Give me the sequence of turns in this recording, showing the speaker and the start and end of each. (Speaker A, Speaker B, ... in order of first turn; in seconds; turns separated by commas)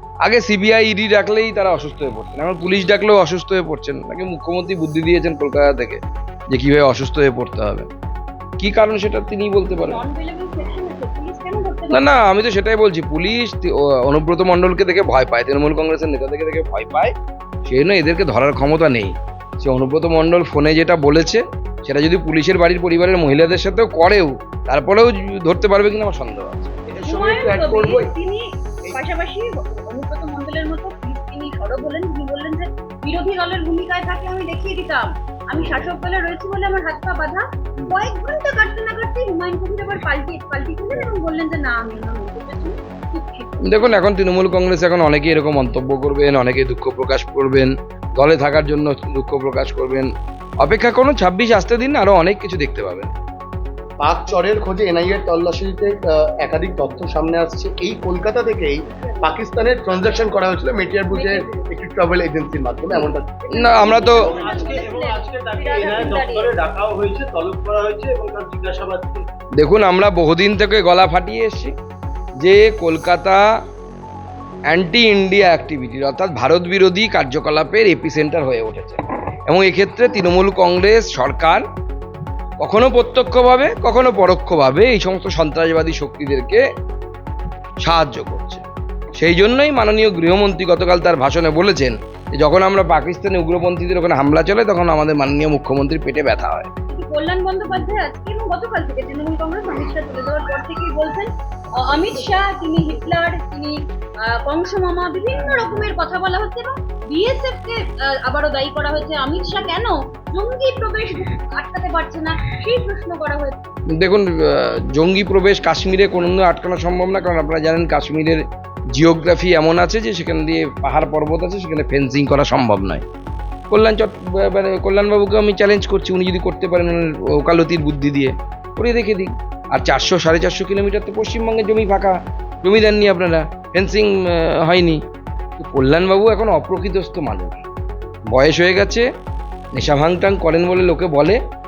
Speaker A: 0.2-7.9, Speaker A: 8.6-10.0, Speaker B: 9.7-12.2, Speaker A: 11.9-17.1, Speaker A: 17.6-26.8, Speaker C: 26.9-28.1, Speaker B: 27.0-44.0, Speaker A: 43.6-50.1, Speaker A: 50.6-53.1, Speaker C: 54.0-64.4, Speaker B: 59.0-59.4, Speaker B: 61.1-61.5, Speaker A: 63.5-64.4, Speaker B: 63.6-66.6, Speaker D: 64.4-69.3, Speaker A: 69.6-71.7, Speaker A: 72.4-73.5, Speaker A: 74.7-81.6, Speaker A: 82.6-86.6, Speaker A: 87.8-88.6, Speaker A: 89.2-96.7, Speaker B: 96.9-113.6, Speaker A: 113.9-118.4, Speaker A: 119.0-123.0, Speaker A: 123.7-135.0, Speaker A: 135.6-137.6, Speaker A: 138.3-139.1, Speaker A: 139.8-141.4